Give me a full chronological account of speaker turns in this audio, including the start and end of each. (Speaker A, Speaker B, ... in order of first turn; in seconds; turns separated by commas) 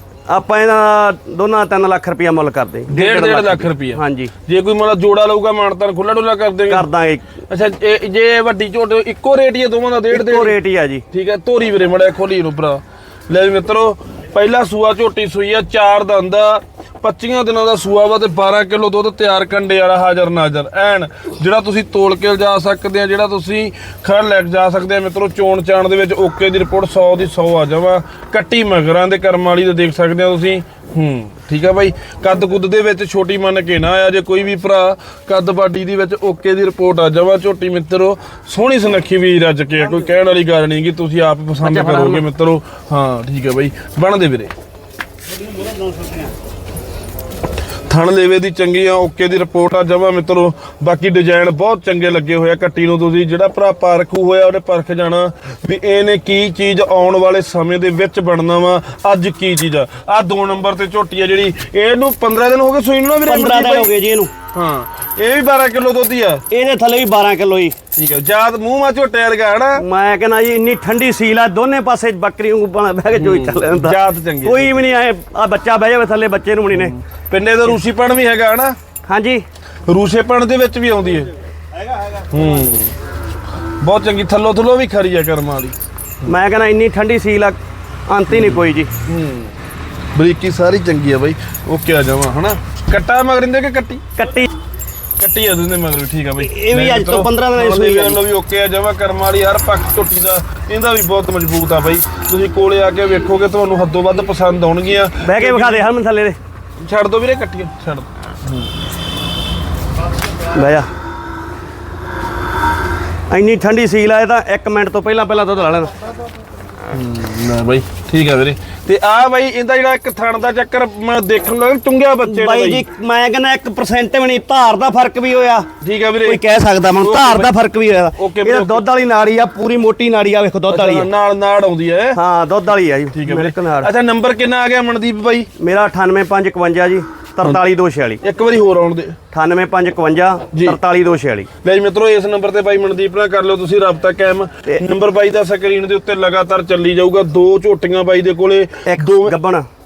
Speaker A: 0.3-4.3, Speaker B: 2.9-6.9, Speaker A: 6.7-7.2, Speaker B: 7.5-10.6, Speaker A: 10.1-11.0, Speaker B: 11.1-44.5, Speaker A: 41.6-42.2, Speaker B: 47.9-63.9, Speaker A: 63.3-64.3, Speaker B: 64.5-66.4, Speaker A: 66.5-67.8, Speaker B: 67.9-69.8, Speaker A: 69.8-76.9, Speaker B: 73.1-74.8, Speaker B: 76.7-78.8, Speaker A: 79.1-79.4, Speaker B: 79.9-81.3, Speaker B: 82.2-82.9, Speaker B: 83.8-85.8, Speaker A: 86.2-87.6, Speaker A: 88.1-88.9, Speaker B: 88.3-89.5, Speaker B: 90.1-94.0, Speaker A: 94.2-94.5, Speaker B: 95.2-105.9, Speaker A: 96.4-98.2, Speaker A: 105.2-106.4, Speaker B: 106.8-108.7, Speaker A: 110.5-110.9, Speaker A: 113.3-115.9, Speaker B: 116.9-122.8, Speaker A: 122.2-125.7, Speaker B: 125.8-126.4, Speaker A: 126.2-131.1, Speaker B: 127.0-127.5, Speaker B: 128.2-128.8, Speaker B: 130.7-132.2, Speaker A: 132.1-133.9, Speaker B: 133.1-135.5, Speaker A: 135.6-138.2, Speaker B: 138.2-139.2, Speaker A: 139.3-141.5, Speaker B: 140.5-140.8, Speaker B: 141.6-149.4, Speaker A: 148.8-149.7